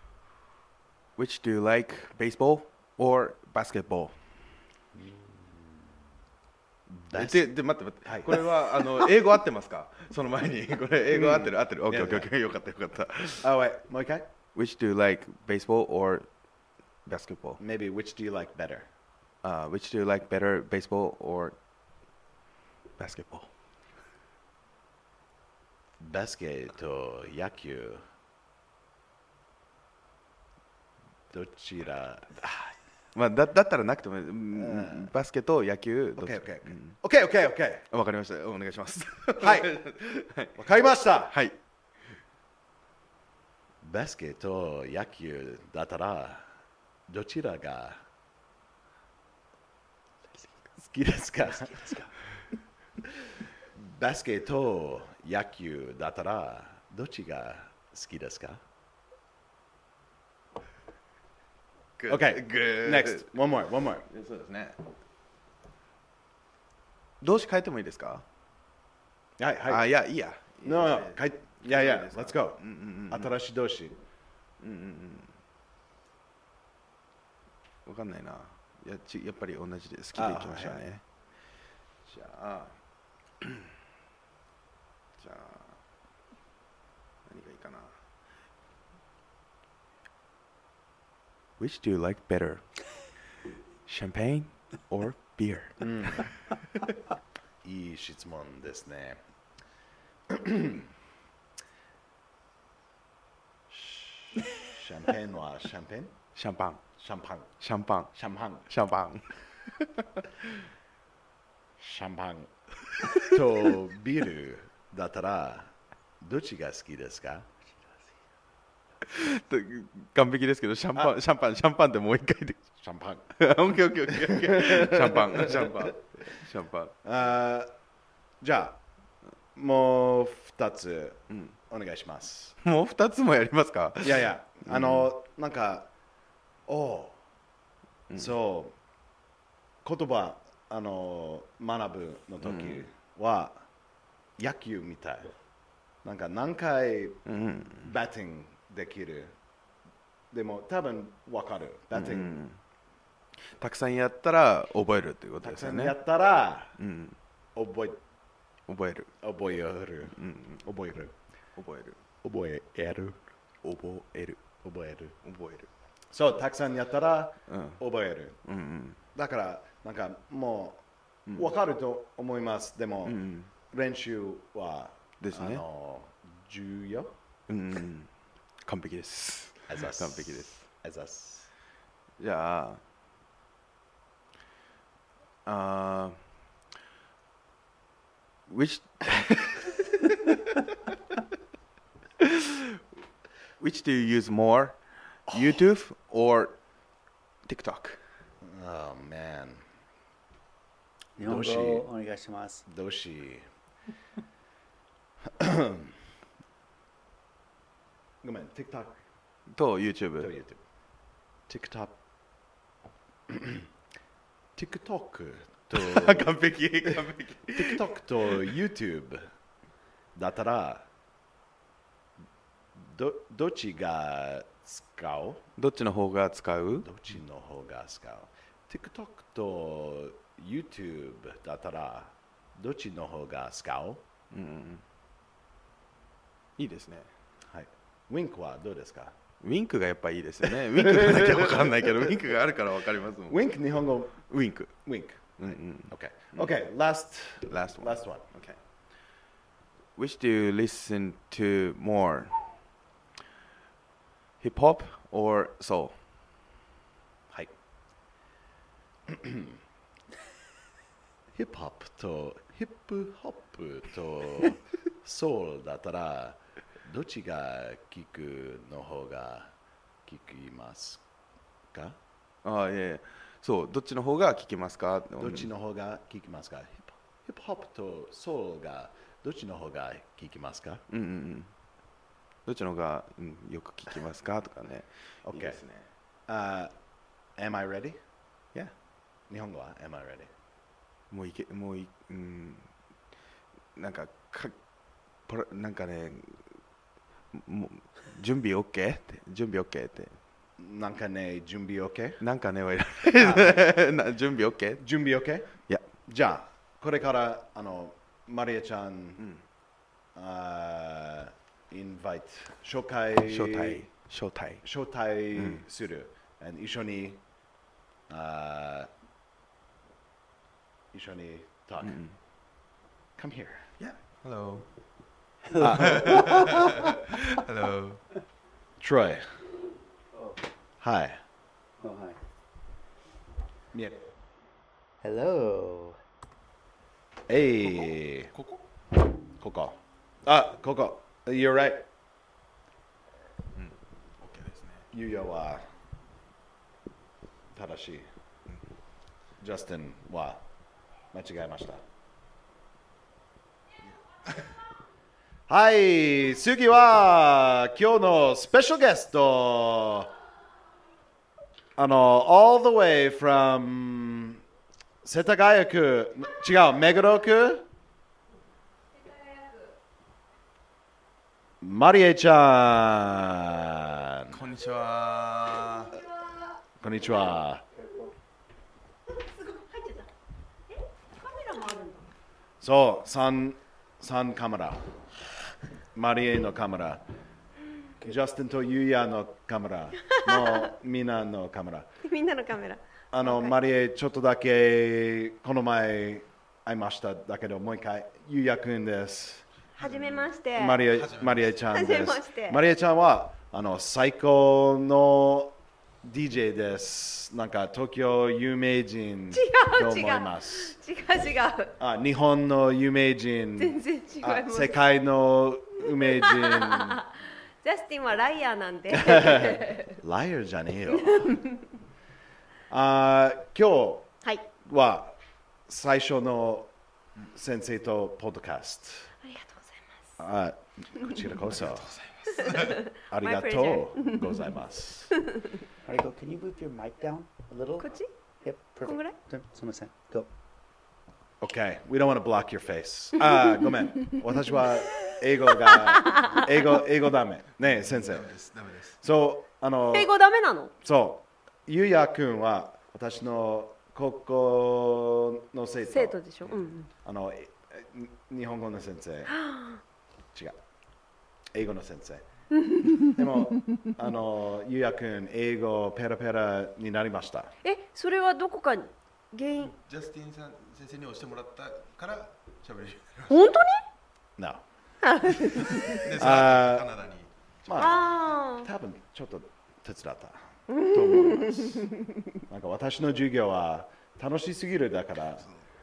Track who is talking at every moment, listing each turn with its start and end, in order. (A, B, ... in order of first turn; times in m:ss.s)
0:01.2-0:04.2 A
0:04.9-0:05.7 B
0:06.9-0:08.4 B
0:07.1-0:13.5 A
0:11.1-0:12.3 B
0:13.4-0:14.3 B
0:14.5-0:16.3 A
0:17.0-0:17.6 A
0:17.6-0:18.9 B
0:19.4-0:21.6 A
0:23.0-0:23.5 A
0:26.0-0:28.0 B
0:31.3-0:32.7 B
0:33.1-0:37.0 A
0:34.5-0:35.1 B
0:36.2-0:37.8 B
0:37.9-0:40.6 A
0:39.4-0:39.8 B
0:40.6-0:41.3 B
0:41.3-0:41.6 A
0:43.8-0:46.4 B
0:47.1-0:48.0 B
0:50.9-0:51.8 B
0:51.5-0:52.1 A
0:53.7-0:58.6 B
1:02.0-1:03.3 A
1:02.1-1:04.0 B
1:04.0-1:04.8 A
1:07.2-1:08.2 A
1:09.4-1:09.8 B
1:09.7-1:13.3 A
1:10.6-1:14.0 B
1:14.6-1:15.3 A
1:17.8-1:21.0 A
1:20.1-1:20.8 B
1:22.0-1:22.8 A
1:23.4-1:23.7 A
1:25.2-1:25.8 A
1:27.2-1:27.9 A
1:31.6-1:32.6 A
1:33.8-1:36.3 A
1:35.8-1:36.3 B
1:37.6-1:39.2 B
1:40.3-1:40.8 B
1:43.7-1:46.1 B
1:46.3-1:46.8 A
1:47.0-1:47.5 B
1:47.6-1:48.1 A
1:48.1-1:48.7 B
1:48.7-1:50.6 A
1:51.8-1:52.5 B
1:53.1-1:57.4 B
1:59.0-2:02.6 A
2:02.8-2:03.3 B
2:03.4-2:06.9 A
2:04.1-2:05.9 B
2:07.0-2:07.7 B
2:08.4-2:08.8 B
2:09.5-2:12.6 B
2:12.6-2:15.1 A
2:14.0-2:15.9 B
2:16.7-2:17.2 B
2:18.1-2:18.7 B
2:19.8-2:23.6 B
2:22.4-2:22.8 A
2:24.4-2:25.3 B
2:26.0-2:29.3 B
2:27.2-2:27.9 A
2:30.3-2:32.4 B
2:31.9-2:32.6 A
2:33.6-2:36.0 A
2:35.4-2:36.7 B
2:36.8-2:37.2 A
2:37.5-2:38.0 B
2:38.7-2:39.1 A
2:39.2-2:41.1 B
2:40.1-2:40.6 A
2:41.6-2:42.0 A
2:42.2-2:43.2 B
2:43.6-2:44.4 A
2:44.6-2:45.1 B
2:45.2-2:45.7 A
2:46.1-2:48.4 B
2:47.5-2:47.8 A
2:48.4-2:49.0 A
2:49.1-2:57.1 B
2:53.0-2:53.5 A
2:55.2-2:55.6 A
2:57.5-2:58.1 A
2:58.6-3:00.6 A
2:59.7-3:01.5 B
3:02.2-3:02.8 A
3:05.4-3:06.2 A
3:08.5-3:10.9 A
3:12.2-3:12.8 A
3:13.6-3:16.6 A
3:17.4-3:18.0 A
3:18.4-3:19.6 B
3:21.2-3:22.6 C
3:21.2-3:21.8 B
3:22.6-3:23.4 B
3:25.4-3:25.9 B
3:28.2-3:29.0 B
3:29.5-3:30.3 A
3:30.2-3:30.6 B
3:31.5-3:31.9 B
3:33.3-3:33.6 B
3:34.6-3:36.3 B
3:35.7-3:38.5 A
3:37.5-3:39.3 B
3:40.1-3:40.8 B
3:42.8-3:45.4 B
3:45.6-3:46.9 A
3:46.8-3:54.0 B
3:54.3-3:54.8 A
3:56.6-3:57.1 A
3:57.5-3:59.1 B
3:59.4-4:03.4 A
4:00.7-4:01.9 B
4:03.3-4:04.3 B
4:04.3-4:04.7 A
4:04.8-4:08.2 B
4:05.4-4:06.5 A
4:07.5-4:08.6 A
4:10.0-4:12.4 A
4:14.4-4:16.0 A
4:19.1-4:19.6 B
4:21.3-4:29.5 B
4:30.0-4:31.0 B
4:31.7-4:32.0 B
4:32.4-4:35.5 A
4:35.2-4:40.8 B
4:40.9-4:41.5 A
4:42.4-4:45.9 A
4:45.2-4:45.6 B
4:46.3-4:46.7 B
4:47.4-4:48.0 B
4:49.3-4:50.3 B
4:51.1-4:52.7 A
4:53.8-4:54.6 A
4:55.3-4:56.4 A
4:57.3-5:00.2 A
5:00.6-5:02.2 B
5:02.2-5:04.8 A
5:03.2-5:03.6 B
5:04.8-5:05.5 B
5:06.0-5:09.2 B
5:10.1-5:13.8 B
5:13.2-5:14.6 A
5:14.6-5:17.2 B
5:15.3-5:15.6 A
5:18.1-5:18.9 B
5:20.9-5:22.0 B
5:21.8-5:22.2 A
5:23.2-5:23.7 B
5:23.8-5:24.6 A
5:25.6-5:26.5 B
5:25.6-5:28.0 A
5:25.6-5:26.9 C
5:28.8-5:29.2 B
5:30.1-5:30.4 C
5:30.8-5:31.2 B
5:31.8-5:32.2 C
5:33.7-5:34.0 B
5:35.0-5:36.0 C
5:37.3-5:38.3 B
5:37.6-5:38.6 A
5:39.4-5:41.8 B
5:43.5-5:44.8 A
5:44.9-5:45.6 B
5:47.5-5:48.1 B
5:49.4-5:50.4 B
5:51.1-5:51.8 B
5:55.5-6:00.1 B
6:01.8-6:04.4 B
6:05.0-6:07.6 B
6:11.6-6:14.4 B
6:14.3-6:16.0 A
6:16.8-6:17.6 B
6:17.8-6:18.1 C
6:19.2-6:20.1 D
6:21.1-6:22.1 D
6:22.6-6:24.8 B
6:25.9-6:27.0 B
6:28.0-6:31.9 B
6:30.2-6:30.7 D
6:32.0-6:33.5 D
6:33.1-6:39.4 B
6:39.8-6:40.8 D
6:39.8-6:41.5 A
6:40.6-6:50.7 B
6:41.7-6:42.6 D
6:49.3-6:51.7 D
6:51.8-6:57.0 B
6:53.6-6:54.7 D
6:55.9-6:57.1 D
6:57.6-7:00.0 D
6:58.9-7:01.4 B
7:01.0-7:01.6 D
7:02.7-7:04.1 B
7:04.6-7:05.2 B
7:05.7-7:06.7 B
7:07.3-7:09.1 B
7:09.2-7:09.8 D
7:10.2-7:11.9 B
7:11.5-7:12.8 A
7:12.3-7:14.4 D
7:13.1-7:15.1 B
7:15.8-7:20.3 C
7:17.8-7:18.1 D
7:18.8-7:19.1 D
7:21.4-7:28.3 B
7:25.9-7:26.5 D
7:27.6-7:29.0 A
7:29.0-7:30.1 B
7:29.9-7:30.7 D
7:30.8-7:36.2 B
7:35.9-7:36.9 D
7:36.4-7:36.7 A
7:37.0-7:39.3 B
7:39.3-7:39.8 D
7:41.5-7:42.2 B
7:42.6-7:43.1 D
7:43.1-7:47.5 B
7:47.6-7:49.7 D
7:49.6-7:53.6 A
7:53.3-7:53.8 D
7:54.4-7:54.6 B
7:55.0-7:56.1 D
7:55.5-7:58.0 A
7:56.2-7:56.9 B
7:57.6-8:01.9 B
7:57.8-7:58.7 D
8:00.7-8:01.9 D
8:02.5-8:05.5 B